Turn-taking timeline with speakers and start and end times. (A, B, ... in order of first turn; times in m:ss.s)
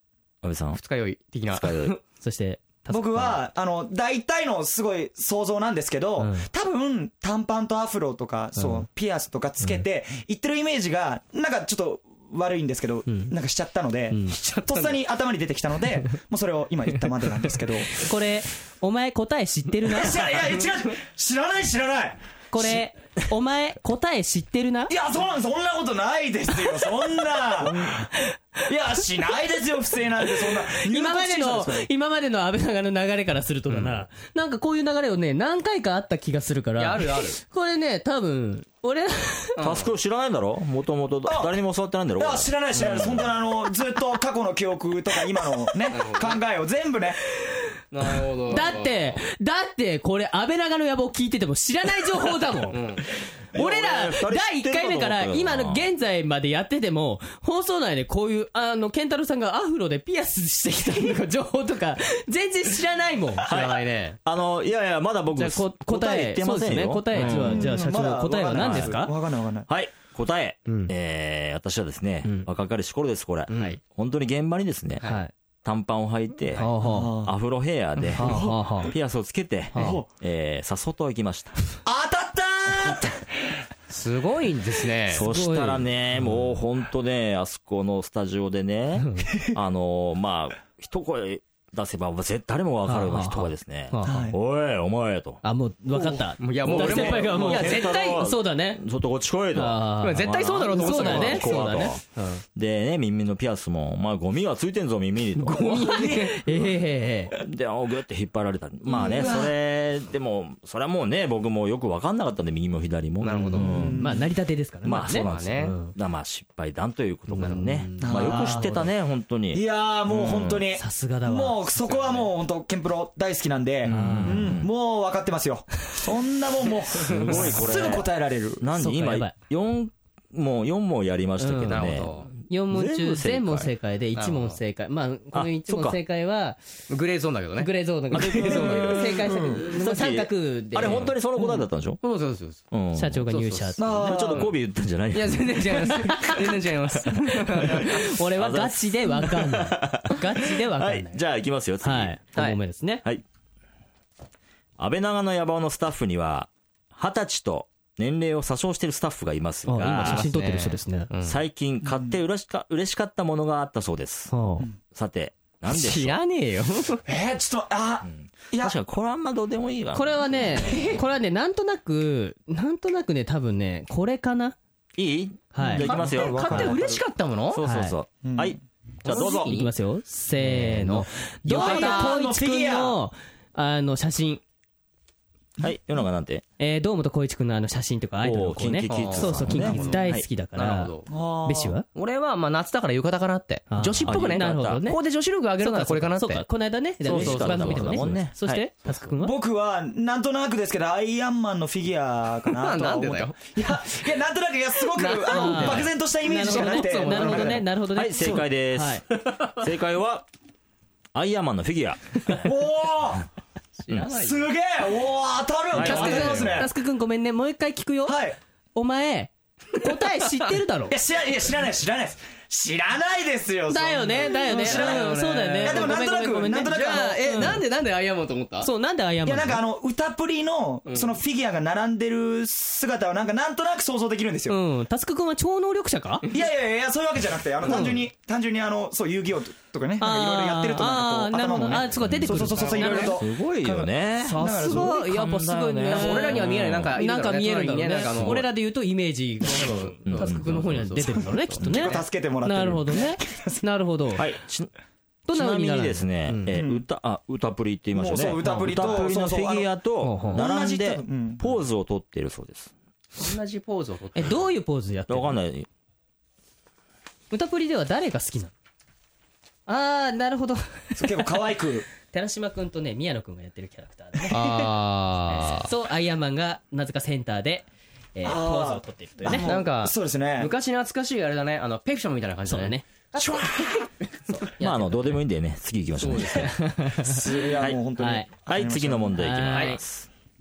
0:00.4-0:00.8 A
0:00.7-0:02.0 B
0:01.5-0:02.0 A
0:02.1-0:03.4 C
0:02.9-0:18.0 D
0:06.2-0:06.5 C
0:13.1-0:13.3 C
0:14.5-0:14.9 B
0:18.0-0:20.5 C
0:19.8-0:22.8 D
0:22.5-0:24.9 C
0:24.9-0:28.1 D
0:28.6-0:31.9 D
0:30.5-0:39.6 C
0:36.8-0:37.4 B
0:39.6-0:39.9 B
0:39.6-0:43.3 A
0:41.2-0:41.6 D
0:42.2-0:47.2 D
0:45.9-0:46.4 B
0:47.9-0:49.2 B
0:48.5-0:52.8 C
0:52.7-0:53.0 B
0:53.5-0:55.8 A
0:53.5-1:03.5 C
1:03.4-1:07.8 A
1:03.5-1:04.2 B
1:05.4-1:09.1 C
1:07.2-1:09.7 D
1:08.5-1:09.0 A
1:09.7-1:15.1 A
1:10.7-1:10.9 C
1:13.5-1:13.8 B
1:15.0-1:15.3 C
1:15.6-1:16.7 A
1:16.6-1:17.1 C
1:16.8-1:17.4 D
1:17.2-1:21.6 A
1:18.2-1:18.7 D
1:18.2-1:18.9 C
1:19.8-1:20.1 D
1:21.8-1:23.2 D
1:23.9-1:25.2 B
1:25.1-1:35.4 A
1:25.1-1:26.4 C
1:29.0-1:29.3 C
1:32.8-1:34.2 C
1:34.0-1:34.4 D
1:35.4-1:38.8 C
1:36.4-1:38.2 B
1:36.6-1:42.0 A
1:39.5-1:42.4 C
1:40.0-1:41.9 B
1:42.6-1:46.0 A
1:45.5-1:47.4 C
1:45.5-1:46.4 B
1:47.3-1:54.0 A
1:48.8-1:49.6 D
1:53.2-1:53.9 B
1:53.6-1:54.3 D
1:54.0-1:56.0 C
1:54.8-2:00.7 A
1:55.2-1:55.8 B
1:57.3-1:57.8 B
1:57.5-1:58.9 C
1:58.0-1:58.7 D
1:59.5-2:08.6 D
2:00.7-2:01.7 C
2:01.8-2:02.3 B
2:03.8-2:04.7 A
2:03.9-2:04.6 C
2:07.1-2:08.1 A
2:08.6-2:13.7 A
2:08.7-2:09.3 C
2:11.4-2:16.6 C
2:11.7-2:12.3 B
2:14.2-2:14.6 B
2:15.3-2:16.0 A
2:16.9-2:17.7 B
2:17.6-2:21.2 C
2:18.1-2:22.0 A
2:18.3-2:19.1 B
2:20.8-2:22.7 B
2:22.7-2:23.3 A
2:22.9-2:24.0 C
2:23.3-2:24.5 B
2:23.8-2:24.5 D
2:23.8-2:25.8 A
2:25.1-2:28.0 B
2:26.0-2:26.4 C
2:27.6-2:31.2 C
2:27.6-2:32.2 A
2:31.8-2:33.0 C
2:34.8-2:40.3 A
2:39.7-2:41.1 C
2:40.0-2:41.4 B
2:41.2-2:44.3 A
2:41.8-2:42.2 D
2:44.3-2:44.7 C
2:44.8-2:46.2 A
2:45.7-2:47.0 B
2:47.1-2:48.8 D
2:48.0-2:50.9 A
2:49.9-2:54.6 C
2:55.0-2:56.8 A
2:55.5-2:55.9 C
2:55.6-2:57.0 D
2:55.8-2:57.6 B
2:57.5-2:59.6 A
2:57.6-2:58.0 C
2:58.2-2:58.6 D
2:59.0-2:59.7 B
2:59.1-3:04.4 C
3:00.4-3:02.2 B
3:01.4-3:03.0 D
3:05.6-3:06.4 A
3:06.6-3:10.9 C
3:08.2-3:10.3 A
3:08.9-3:11.1 B
3:11.1-3:11.8 D
3:11.5-3:11.9 C
3:12.0-3:16.4 B
3:13.7-3:15.0 C
3:14.0-3:14.8 A
3:15.6-3:19.4 C
3:17.0-3:18.3 B
3:17.1-3:18.7 A
3:19.2-3:27.7 D
3:22.6-3:23.5 B
3:24.9-3:27.7 B
3:25.3-3:29.0 C
3:27.9-3:30.3 A
3:31.1-3:32.4 A
3:32.4-3:33.3 D
3:33.8-3:34.5 B
3:34.1-3:36.7 D
3:35.7-3:36.5 A
3:35.8-3:38.2 C
3:35.8-3:36.6 B
3:38.1-3:38.4 D
3:38.8-3:41.0 C
3:40.9-3:47.2 D
3:43.7-3:47.6 C
3:44.2-3:46.0 B
3:46.6-3:48.7 B
3:48.6-3:49.6 C
3:49.2-3:54.6 D
3:50.9-3:51.1 B
3:54.5-3:56.3 C
3:56.3-4:05.0 D
3:57.6-3:58.0 C
4:00.0-4:03.2 C
4:01.9-4:06.9 A
4:02.8-4:03.0 B
4:04.2-4:14.2 C
4:05.8-4:08.5 B
4:09.5-4:12.0 B
4:10.0-4:11.2 A
4:11.6-4:13.6 D
4:14.2-4:14.7 A
4:15.3-4:16.4 C
4:15.3-4:22.7 A
4:16.5-4:16.8 D
4:17.9-4:19.7 D
4:18.4-4:19.1 C
4:20.0-4:20.4 C
4:20.3-4:21.5 D
4:23.2-4:24.4 B
4:24.1-4:25.4 C
4:25.1-4:25.7 A
4:27.3-4:28.5 C
4:29.7-4:31.3 C
4:31.0-4:31.9 D
4:32.0-4:34.5 C
4:34.2-4:34.5 D
4:34.3-4:35.7 B
4:35.3-4:39.5 C
4:38.2-4:40.5 D
4:39.3-4:44.1 B
4:42.5-4:42.8 C
4:43.2-4:43.9 D
4:44.3-4:45.2 C
4:44.6-4:46.6 A
4:46.0-4:47.2 B
4:47.0-4:49.2 D
4:48.0-4:48.3 C
4:48.5-4:50.1 A
4:49.2-4:49.8 C
4:49.5-4:49.8 B